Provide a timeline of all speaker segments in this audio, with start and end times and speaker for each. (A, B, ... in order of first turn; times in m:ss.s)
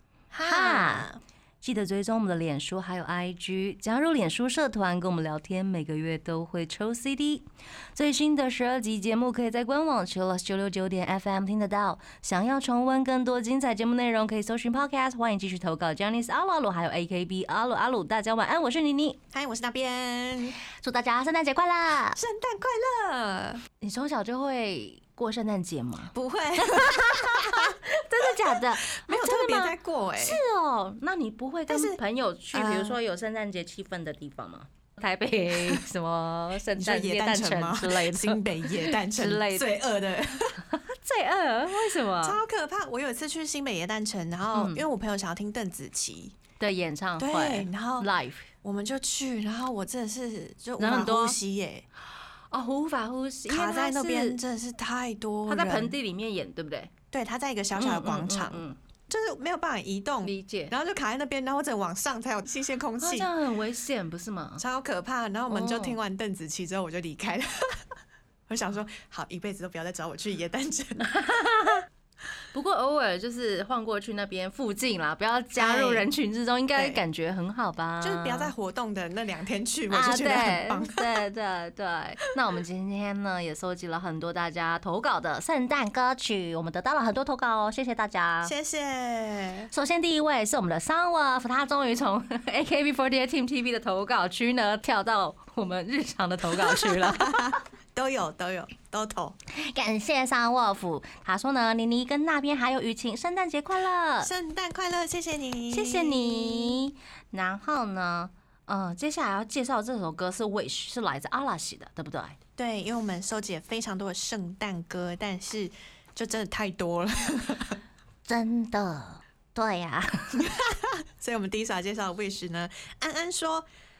0:00.3-0:01.2 A
0:00.4-0:01.1 B
0:01.6-0:19.2 B
0:19.3-0:20.6 A
0:20.7-0:22.2 B
0:22.1-0:23.6 A
0:23.8-0:39.7 B
0:26.1-0:27.8 A
0:28.5-0:30.4 A
0:31.7-0:32.0 A
0:32.5-0:33.0 A
0:36.8-0:40.6 A
0:40.6-0:42.4 B
0:42.2-0:46.4 A
0:44.5-0:44.8 B
0:46.6-0:48.5 B
0:47.2-0:48.1 A
0:48.6-0:51.8 A
0:50.8-0:51.4 B
0:52.5-0:54.4 B
0:53.5-0:56.0 A
0:55.5-0:56.9 B
0:57.1-1:03.3 A
0:57.8-0:58.8 B
1:00.2-1:00.7 B
1:03.0-1:04.6 B
1:04.6-1:07.8 A
1:05.5-1:06.0 B
1:08.5-1:11.1 A
1:11.0-1:11.8 B
1:12.5-1:18.5 B
1:15.6-1:16.1 A
1:18.0-1:21.2 A
1:19.9-1:28.5 B
1:28.4-1:29.7 A
1:29.7-1:37.5 B
1:36.6-1:39.4 A
1:39.6-1:44.3 B
1:44.2-1:46.8 A
1:45.7-1:52.4 B
1:52.6-1:57.8 A
1:58.2-2:00.5 B
2:00.4-2:03.7 A